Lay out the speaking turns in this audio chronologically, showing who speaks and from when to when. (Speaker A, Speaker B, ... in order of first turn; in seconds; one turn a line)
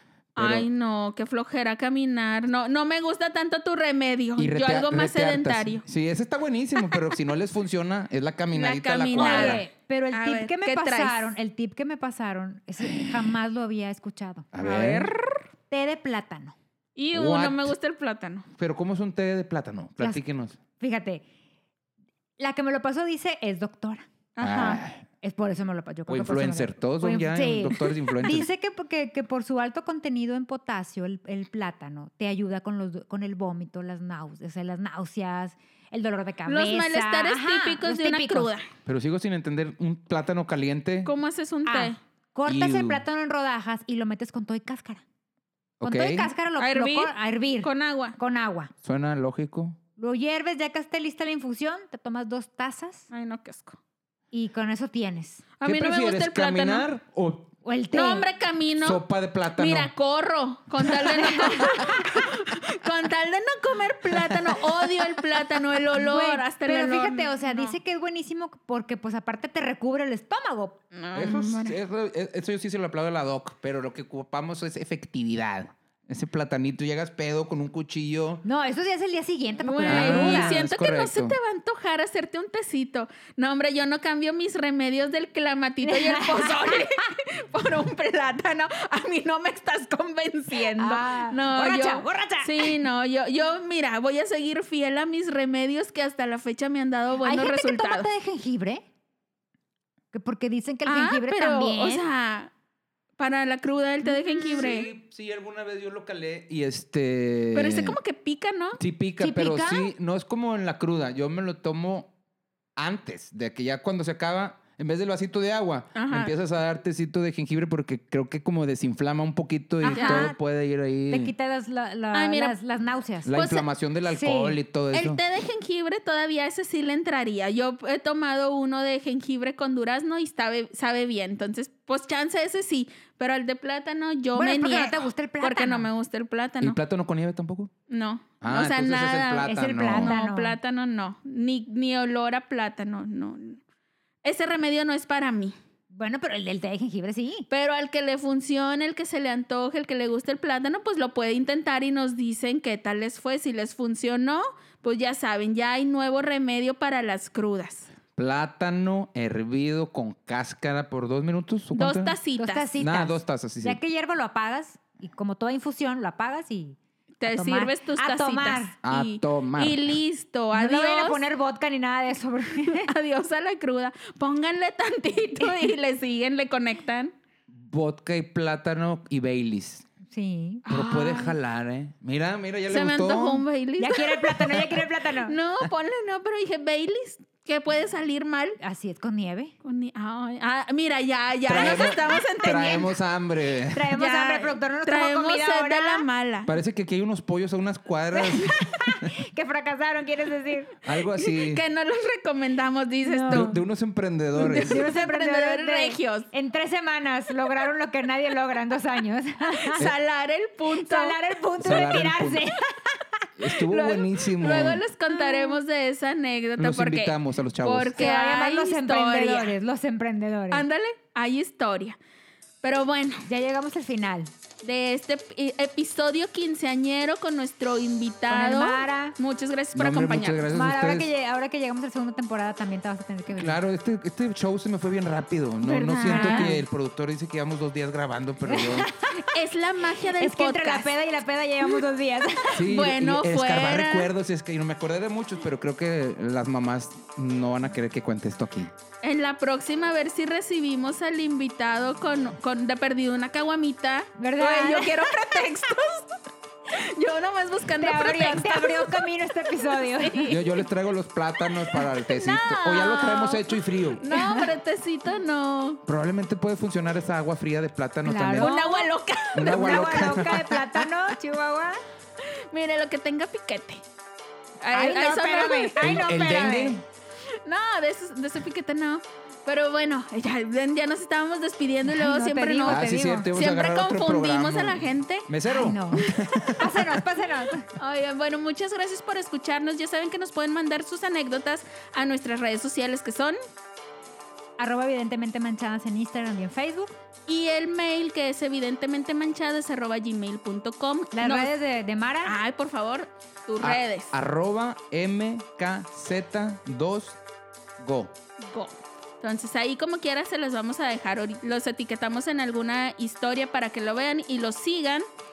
Speaker A: 0.3-0.7
Speaker B: 0.3-5.8
Speaker A: 4.4-9.6
Speaker B: 8.5-11.3
Speaker C: 9.1-14.5
Speaker A: 12.8-13.3
Speaker A: 14.5-15.1
Speaker B: 14.6-15.4
Speaker C: 15.7-16.5
Speaker B: 16.9-18.4
Speaker A: 17.1-17.7
Speaker A: 18.6-20.6
Speaker C: 20.0-21.2
Speaker C: 22.4-24.1
Speaker B: 24.4-24.8
Speaker A: 24.4-25.0
Speaker C: 25.2-38.5
Speaker A: 26.1-28.5
Speaker B: 36.5-38.6
Speaker A: 38.9-41.1
Speaker B: 41.0-42.0
Speaker C: 41.6-45.0
Speaker A: 42.5-43.0
Speaker A: 45.8-46.3
Speaker C: 45.8-48.7
Speaker B: 46.6-48.2
Speaker A: 48.8-49.8
Speaker C: 50.0-53.1
Speaker B: 53.1-53.8
Speaker C: 54.3-55.4
Speaker B: 55.6-56.9
Speaker A: 55.6-57.5
Speaker C: 57.6-58.2
Speaker B: 57.9-59.0
Speaker A: 58.8-59.9
Speaker B: 59.6-67.8
Speaker C: 61.2-61.9
Speaker C: 65.9-70.8
Speaker B: 70.9-71.8
Speaker A: 71.1-78.4
Speaker C: 78.4-80.6
Speaker B: 79.6-98.1
Speaker A: 79.8-81.4
Speaker C: 85.8-87.0
Speaker C: 90.8-92.8
Speaker C: 97.2-98.8
Speaker C: 100.1-102.0
Speaker B: 100.8-102.5
Speaker B: 103.2-104.9
Speaker A: 104.5-108.0
Speaker B: 107.5-108.8
Speaker A: 108.8-112.1
Speaker C: 109.2-109.9
Speaker A: 112.8-121.3
Speaker B: 115.9-116.3
Speaker C: 119.8-120.4
Speaker B: 119.9-120.3
Speaker C: 121.1-123.4
Speaker B: 122.1-122.5
Speaker A: 123.2-125.2
Speaker B: 123.3-123.7
Speaker C: 124.1-124.6
Speaker B: 124.9-136.8
Speaker C: 134.3-135.9
Speaker A: 136.6-137.7
Speaker B: 137.9-143.6
Speaker A: 138.4-140.1
Speaker C: 139.4-140.6
Speaker B: 144.2-145.5
Speaker C: 145.9-147.5
Speaker B: 147.5-157.9
Speaker A: 158.2-162.2
Speaker B: 161.7-162.7
Speaker C: 162.3-168.7
Speaker A: 162.8-163.8
Speaker B: 167.2-171.2
Speaker A: 168.8-170.0
Speaker C: 170.5-172.9
Speaker B: 172.7-177.1
Speaker A: 177.5-179.8
Speaker C: 180.1-180.6
Speaker B: 180.7-181.4
Speaker A: 180.7-183.4
Speaker B: 182.7-188.6
Speaker C: 183.8-185.3
Speaker C: 188.6-189.5
Speaker B: 189.6-192.9
Speaker A: 191.5-193.9
Speaker C: 193.7-196.0
Speaker B: 193.9-196.5
Speaker A: 196.4-199.1
Speaker C: 198.1-200.8
Speaker A: 200.8-201.6
Speaker B: 201.2-203.5
Speaker C: 203.0-203.6
Speaker A: 203.3-204.8
Speaker B: 204.3-206.3
Speaker C: 204.6-209.8
Speaker B: 209.6-211.2
Speaker C: 210.8-213.2
Speaker A: 211.6-212.4
Speaker A: 213.4-214.8
Speaker B: 213.7-219.6
Speaker C: 215.1-215.5
Speaker A: 216.6-218.0
Speaker C: 218.0-220.6
Speaker B: 220.5-222.0
Speaker B: 222.6-223.2
Speaker C: 223.2-224.3
Speaker B: 224.6-230.4
Speaker C: 228.3-229.1
Speaker A: 229.7-231.1
Speaker C: 230.5-233.6
Speaker A: 233.3-238.9
Speaker B: 235.6-236.5
Speaker C: 236.0-236.6
Speaker C: 238.5-239.3
Speaker B: 239.3-240.9
Speaker C: 240.0-242.6
Speaker A: 242.5-248.7
Speaker B: 242.6-244.1
Speaker B: 249.0-256.1
Speaker C: 254.2-255.1
Speaker B: 256.7-259.0
Speaker C: 257.8-260.3
Speaker B: 259.8-260.6
Speaker A: 260.3-264.0
Speaker B: 261.7-265.8
Speaker C: 264.1-264.5
Speaker A: 265.8-268.5
Speaker C: 268.0-268.9
Speaker B: 268.4-270.3
Speaker A: 269.3-270.6
Speaker C: 269.4-271.8
Speaker B: 272.2-273.8
Speaker B: 274.6-276.1
Speaker C: 274.7-276.8
Speaker A: 275.8-276.8
Speaker B: 277.4-285.3
Speaker C: 281.9-283.3
Speaker A: 282.6-287.0
Speaker C: 285.5-287.6
Speaker B: 287.8-293.4
Speaker C: 294.6-296.9
Speaker B: 297.3-301.5
Speaker C: 301.1-302.4
Speaker B: 302.2-304.1
Speaker A: 303.6-307.2
Speaker A: 307.8-308.1
Speaker B: 308.4-315.0